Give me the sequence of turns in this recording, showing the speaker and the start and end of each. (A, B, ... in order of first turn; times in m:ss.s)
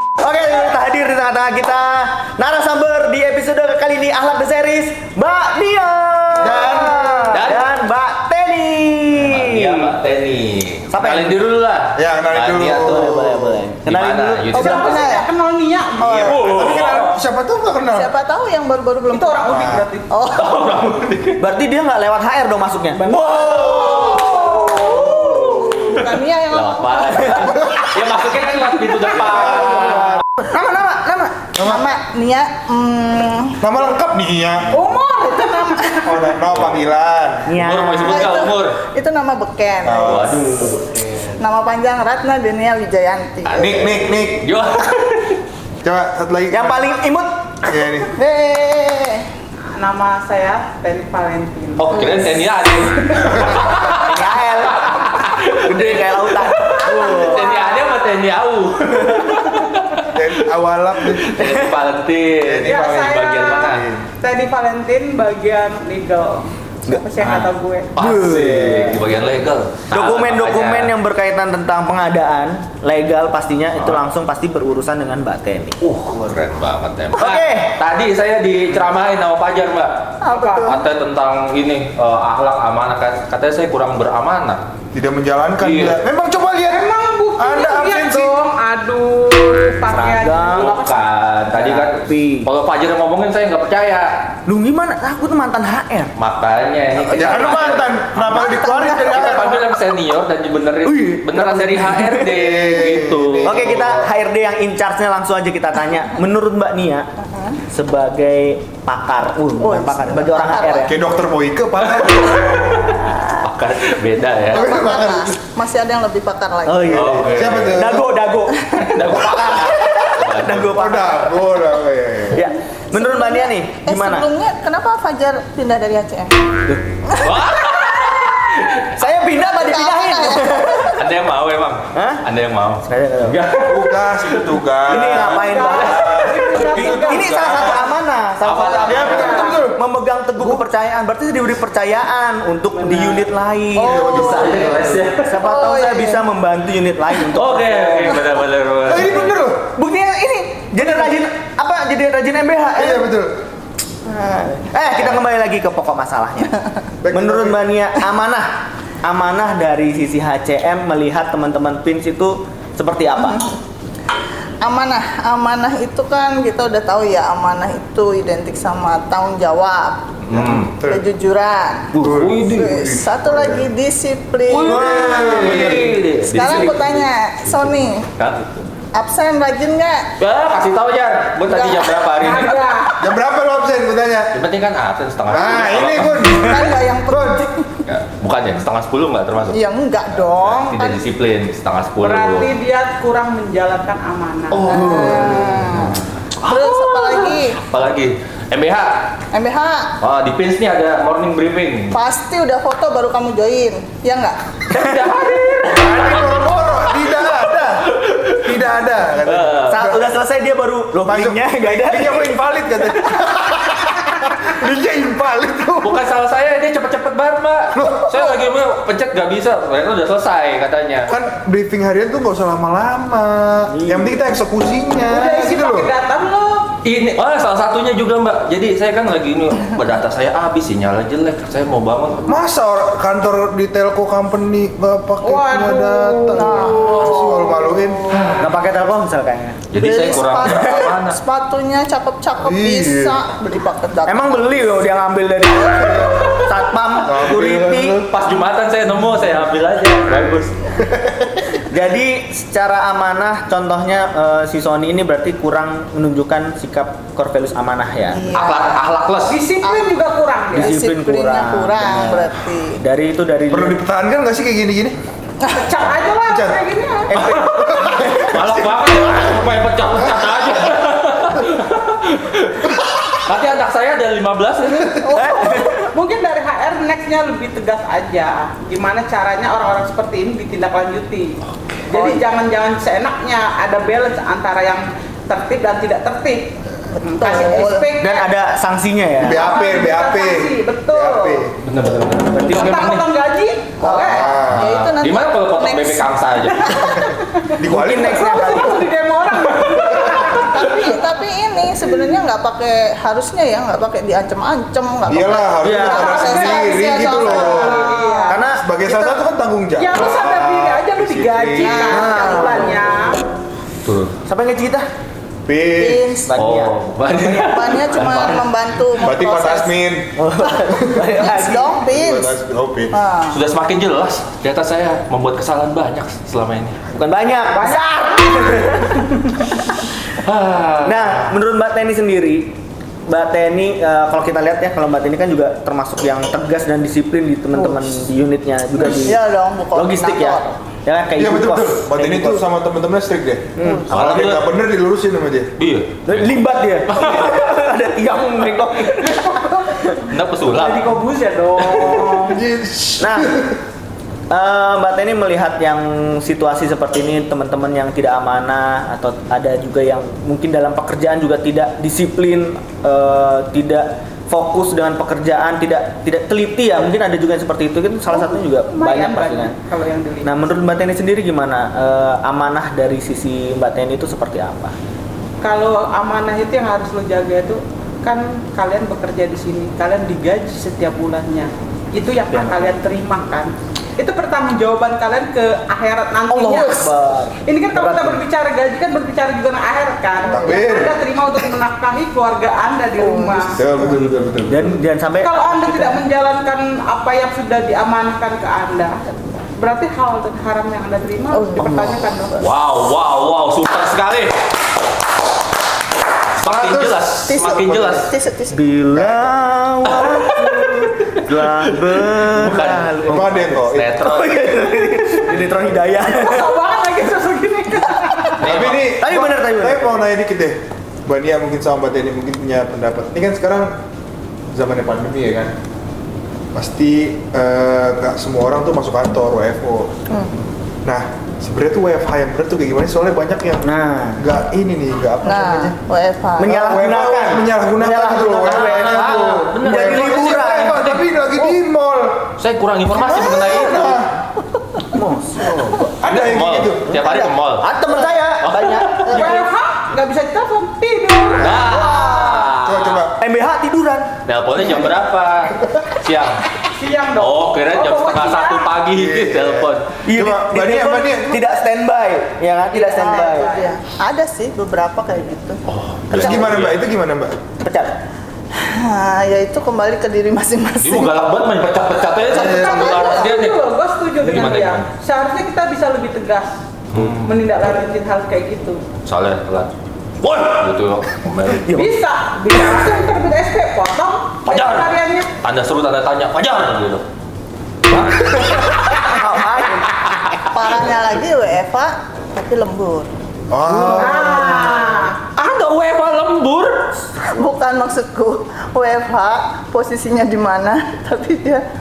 0:00.2-0:09.9 A
0:06.4-0:07.4 B
0:07.3-0:07.6 C
0:09.2-0:13.2 C
0:10.9-0:11.4 A
0:12.0-0:13.6 B
0:12.8-0:15.0 A
0:13.8-0:14.9 C
0:14.5-0:15.3 D
0:14.6-0:16.4 E
0:16.0-0:18.1 B
0:16.0-0:16.4 D
0:16.2-0:17.2 C
0:17.9-0:20.6 D
0:19.1-0:20.1 E
0:19.5-0:19.8 B
0:20.3-0:21.4 C
0:21.4-0:23.1 A
0:23.0-0:25.4 E
0:23.1-0:30.2 C
0:23.3-0:27.6 D
0:29.2-0:30.2 B
0:30.4-0:31.5 A
0:31.5-0:31.8 B
0:31.6-0:33.6 D
0:33.6-0:34.8 B
0:34.7-0:36.3 E
0:35.2-0:36.1 D
0:36.0-0:37.5 B
0:37.4-0:38.5 A
0:37.6-0:38.8 C
0:38.1-0:40.4 D
0:39.8-0:40.5 B
0:40.0-0:40.8 C
0:40.5-0:41.3 A
0:41.4-0:43.9 D
0:43.4-0:45.4 C
0:43.6-0:44.5 B
0:45.8-0:46.9 B
0:46.5-0:47.4 A
0:47.6-0:48.1 B
0:48.1-0:49.3 D
0:49.7-0:52.1 E
0:51.8-1:00.2 C
0:53.4-0:57.6 A
0:56.8-0:58.0 E
1:00.1-1:01.4 B
1:01.0-1:03.8 C
1:02.4-1:04.0 B
1:02.6-1:07.9 E
1:06.9-1:09.0 A
1:08.0-1:10.9 C
1:09.9-1:15.8 A
1:15.8-1:24.6 C
1:17.2-1:17.8 A
1:20.2-1:20.8 D
1:20.3-1:20.8 E
1:24.9-1:28.4 B
1:25.6-1:26.0 C
1:26.7-1:31.0 E
1:29.9-1:30.8 A
1:29.9-1:34.1 C
1:31.5-1:32.5 A
1:34.4-1:36.1 A
1:36.2-1:37.9 C
1:37.1-1:39.6 B
1:37.2-1:37.6 D
1:37.2-1:39.5 A
1:38.3-1:39.4 D
1:39.0-1:43.8 C
1:40.8-1:42.3 A
1:42.2-1:44.1 B
1:43.4-1:47.1 A
1:47.2-1:47.6 D
1:47.7-1:51.0 A
1:49.6-1:50.9 D
1:50.8-1:52.6 B
1:52.0-1:54.7 C
1:54.5-1:57.1 D
1:54.5-1:55.3 B
1:56.6-2:01.3 A
1:56.9-1:57.8 C
1:57.0-1:58.1 B
1:58.8-2:00.8 C
2:00.7-2:02.4 B
2:02.3-2:04.3 A
2:02.9-2:06.3 D
2:07.1-2:07.4 D
2:07.1-2:09.0 C
2:09.0-2:11.0 A
2:09.3-2:11.0 D
2:10.9-2:15.3 C
2:11.9-2:12.2 A
2:12.8-2:13.4 A
2:13.6-2:17.9 B
2:14.9-2:28.2 A
2:15.3-2:17.4 E
2:18.4-2:19.4 C
2:18.8-2:19.8 B
2:19.0-2:19.6 E
2:22.8-2:23.2 C
2:23.8-2:24.8 D
2:23.8-2:25.0 B
2:24.0-2:25.3 C
2:25.3-2:26.2 D
2:27.2-2:29.3 C
2:28.8-2:29.6 B
2:29.7-2:33.1 A
2:32.7-2:33.3 B
2:34.0-2:36.5 A
2:37.0-2:37.6 B
2:37.1-2:43.4 A
2:43.1-2:43.5 D
2:44.6-2:50.0 D
2:50.2-2:50.7 C
2:50.3-2:51.0 B
2:50.8-2:54.9 D
2:51.9-2:52.7 C
2:51.9-2:53.7 B
2:54.5-2:58.6 C
2:54.6-2:55.9 A
2:54.6-2:55.9 B
2:56.2-2:58.1 D
2:58.9-3:00.1 D
3:00.2-3:02.7 C
3:01.5-3:02.0 D
3:02.2-3:03.0 E
3:03.0-3:04.3 B
3:04.3-3:06.4 C
3:05.3-3:07.4 B
3:06.2-3:07.7 D
3:07.8-3:12.5 C
3:09.5-3:11.0 D
3:12.0-3:14.8 E
3:14.5-3:19.1 C
3:14.6-3:17.6 D
3:19.3-3:19.9 D
3:20.0-3:22.0 C
3:21.9-3:24.4 D
3:24.7-3:26.8 C
3:24.7-3:25.0 A
3:25.6-3:30.0 B
3:27.8-3:28.5 C
3:29.2-3:29.8 C
3:29.7-3:32.3 A
3:31.0-3:36.0 B
3:35.8-3:41.1 C
3:37.7-3:38.1 B
3:41.1-3:45.9 B
3:43.7-3:44.2 A
3:45.1-3:46.7 E
3:46.8-3:52.4 C
3:52.2-3:58.2 B
3:55.2-3:56.8 E
3:56.3-3:58.0 D
3:56.7-3:57.2 C
3:58.1-3:58.5 C
3:58.4-3:59.6 A
3:59.7-4:01.2 C
3:59.8-4:04.6 D
4:02.4-4:03.2 B
4:04.0-4:08.0 A
4:05.8-4:06.1 B
4:07.0-4:08.1 B
4:08.1-4:10.5 C
4:11.7-4:18.3 A
4:18.1-4:18.8 D
4:18.3-4:19.4 C
4:19.2-4:20.8 E
4:19.6-4:19.9 D
4:20.5-4:22.8 D
4:20.5-4:23.8 A
4:23.5-4:25.0 B
4:25.5-4:27.4 E
4:26.3-4:26.6 B
4:27.1-4:28.4 A
4:27.4-4:29.4 B
4:28.3-4:35.1 C
4:35.0-4:35.8 D
4:35.1-4:35.9 A
4:35.9-4:41.4 E
4:41.9-4:48.3 E
4:47.0-4:47.9 D
4:48.0-4:49.7 A
4:49.2-4:51.5 B
4:49.2-4:51.5 E
4:51.6-4:53.1 C
4:52.2-4:52.9 A
4:52.4-4:54.3 E
4:53.8-4:54.2 A
4:53.8-4:57.0 D
4:54.0-4:54.8 B
4:54.5-4:56.8 C
4:56.7-5:00.8 E
4:57.6-4:58.5 B
4:57.6-4:58.9 A
5:00.4-5:08.4 D
5:05.0-5:08.0 B
5:05.6-5:06.3 A
5:05.9-5:08.5 E
5:08.3-5:09.1 A
5:08.5-5:12.0 B
5:09.8-5:13.2 E
5:11.6-5:12.9 D
5:11.8-5:12.8 A
5:13.8-5:14.1 C
5:14.2-5:14.9 A
5:15.4-5:16.2 B
5:15.8-5:16.4 D
5:16.3-5:16.8 A
5:16.4-5:18.4 C
5:17.1-5:19.8 D
5:19.0-5:20.1 B
5:20.2-5:21.8 A
5:20.7-5:21.1 B
5:21.1-5:22.3 D
5:21.9-5:22.9 B
5:22.9-5:23.4 D
5:23.3-5:26.8 C
5:26.9-5:29.5 A
5:27.5-5:28.6 E
5:30.1-5:31.3 C
5:30.8-5:32.5 A
5:33.1-5:39.2 A
5:38.8-5:40.6 D
5:39.7-5:42.4 A
5:41.2-5:45.5 B
5:43.6-5:43.9 A
5:43.6-5:43.9 D
5:43.9-5:44.4 C
5:45.6-5:47.4 C
5:46.0-5:52.4 A
5:50.1-5:51.0 C
5:51.7-5:52.0 C
5:51.7-5:53.6 B
5:53.0-5:53.4 A
5:54.3-6:09.6 A
6:08.1-6:10.4 E
6:10.2-6:14.7 A
6:15.4-6:26.9 E
6:22.3-6:22.8 A
6:26.3-6:28.2 A
6:27.4-6:33.6 E
6:30.2-6:30.7 D
6:30.3-6:31.0 B
6:33.0-6:33.7 D
6:33.5-6:34.8 B
6:33.7-6:36.0 A
6:35.2-6:42.4 E
6:41.3-6:41.9 D
6:41.6-6:41.9 A
6:42.4-6:44.4 C
6:46.4-6:48.1 C
6:46.4-6:47.0 B
6:47.3-6:48.6 D
6:48.5-6:56.6 A
6:48.9-6:49.3 B
6:49.9-6:54.4 C
6:53.0-6:53.9 B
6:56.0-6:58.4 E
6:58.3-7:00.0 A
6:58.4-6:58.9 C
6:58.4-7:03.8 B
7:04.5-7:05.5 B
7:06.5-7:09.9 B
7:10.8-7:13.7 B
7:13.6-7:14.2 A
7:14.2-7:15.8 B
7:15.2-7:16.6 D
7:16.4-7:20.9 A
7:16.4-7:22.3 B
7:18.4-7:21.0 C
7:22.4-7:24.0 C
7:23.0-7:24.1 B
7:23.1-7:23.9 D
7:24.9-7:25.9 A
7:26.0-7:27.0 B
7:26.1-7:27.6 C
7:27.2-7:29.4 A
7:28.4-7:29.4 C
7:29.0-7:32.1 E
7:31.4-7:33.0 C
7:32.5-7:33.2 B
7:33.2-7:34.1 A
7:34.2-7:36.4 C
7:36.6-7:38.7 E
7:37.2-7:39.9 C
7:38.9-7:41.6 B
7:40.0-7:43.5 A
7:42.8-7:45.6 D
7:42.9-7:43.8 E
7:45.6-7:46.8 C
7:46.1-7:47.4 B
7:47.6-7:48.0 A
7:48.5-7:51.3 D
7:50.8-7:53.6 C
7:52.2-7:53.4 D
7:52.3-7:53.0 B
7:52.5-7:58.8 E
7:54.2-7:54.8 C
7:56.9-7:57.4 C
7:59.0-7:59.7 C
8:00.2-8:01.8 C
8:01.5-8:01.9 A
8:01.7-8:05.3 E
8:04.4-8:07.0 C
8:07.9-8:09.1 C
8:08.2-8:10.2 A
8:10.4-8:13.1 D
8:13.5-8:14.3 B
8:13.7-8:14.6 A
8:13.8-8:15.2 E
8:15.2-8:17.0 C
8:17.2-8:21.6 D